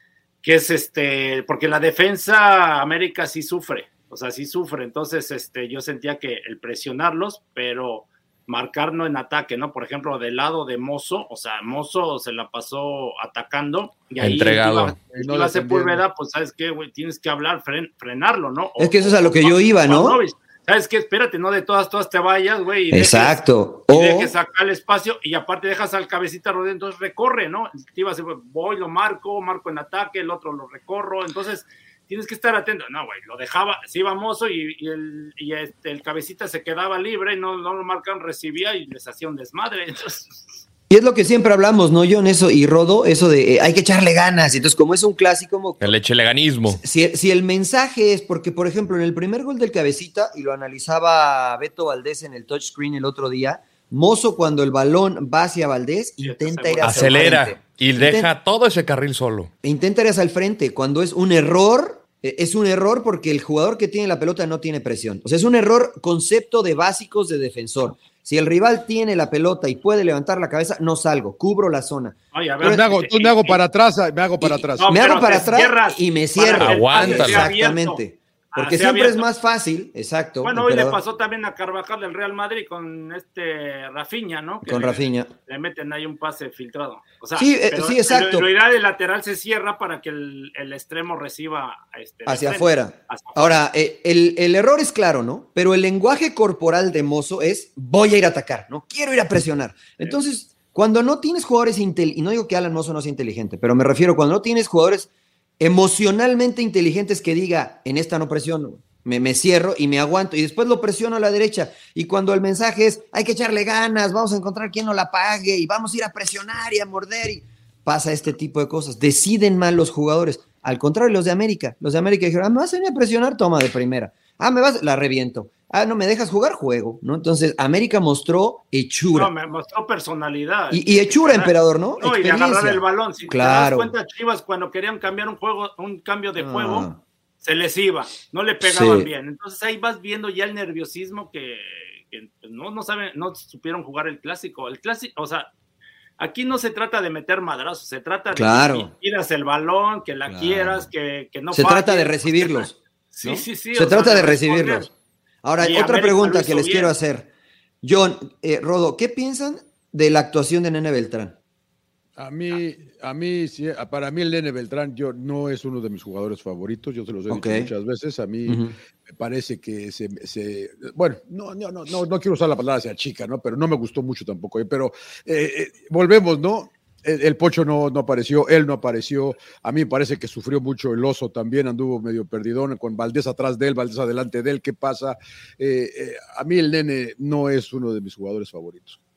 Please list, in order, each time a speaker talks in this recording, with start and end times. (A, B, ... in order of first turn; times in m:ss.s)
0:00.4-0:23.4 A
0:14.2-0:15.0 B
0:15.1-0:16.0 C
0:18.8-0:20.2 D
0:22.9-0:24.3 D
0:23.9-0:40.5 A
0:40.9-0:45.9 D
0:45.8-0:46.8 B
0:46.7-0:58.3 D
0:56.2-0:57.5 A
0:56.8-0:59.5 B
0:59.6-1:12.8 D
1:12.3-1:13.6 A
1:12.6-1:14.9 C
1:14.4-1:21.0 D
1:14.8-1:18.0 A
1:16.6-1:17.5 B
1:18.5-1:19.3 A
1:20.4-1:33.6 A
1:24.6-1:25.3 D
1:27.4-1:28.5 D
1:32.2-1:45.1 D
1:45.6-2:09.3 D
2:09.1-2:16.9 A
2:10.7-2:13.9 D
2:16.4-2:17.0 D
2:17.4-2:25.5 A
2:18.6-2:19.1 D
2:26.2-2:34.9 A
2:28.3-2:28.9 D
2:30.3-2:30.9 D
2:31.5-2:34.9 D
2:35.4-2:37.3 D
2:35.6-2:36.9 A
2:37.8-2:41.4 D
2:42.2-3:09.0 C
2:47.3-2:47.7 D
2:48.4-2:48.7 D